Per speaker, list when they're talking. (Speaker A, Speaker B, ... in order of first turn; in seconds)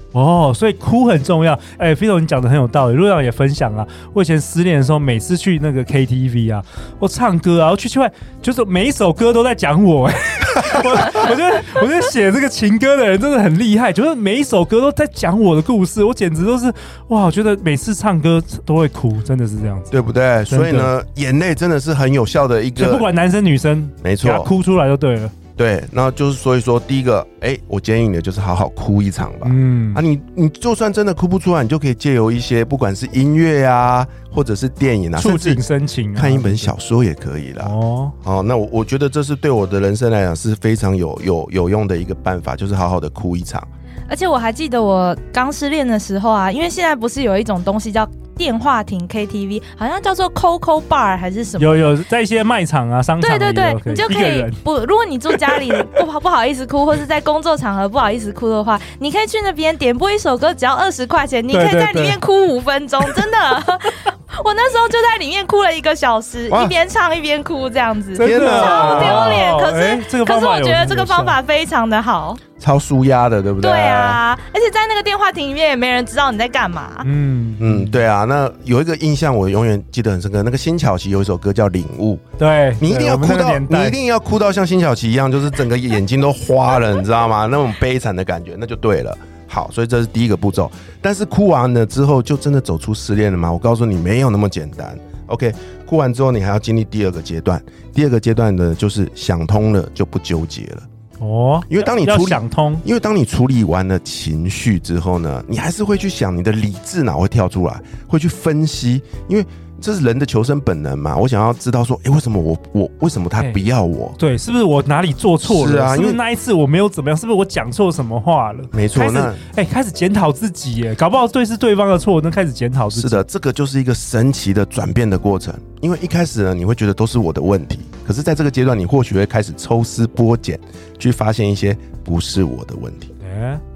Speaker A: 0.1-19.9, 20.5-20.9, 22.8-25.3, 29.4-30.0, 35.1-36.7, 37.6-38.1, 51.6-54.6, 61.5-62.2, 68.2-71.4, 77.0-77.9, 82.4-84.0, 101.2-102.8, 114.2-123.2, 133.2-133.6
Speaker B: 19.9-23.1, 24.0-24.5, 25.6-35.6, 36.1-43.7, 66.5-66.8, 68.2-69.4, 72.6-74.2, 77.6-82.2, 82.8-100.8, 101.7-114.2, 115.4-116.2, 118.7-119.4, 122.9-133.1
Speaker C: 44.1-51.9, 53.2-72.4, 73.6-77.1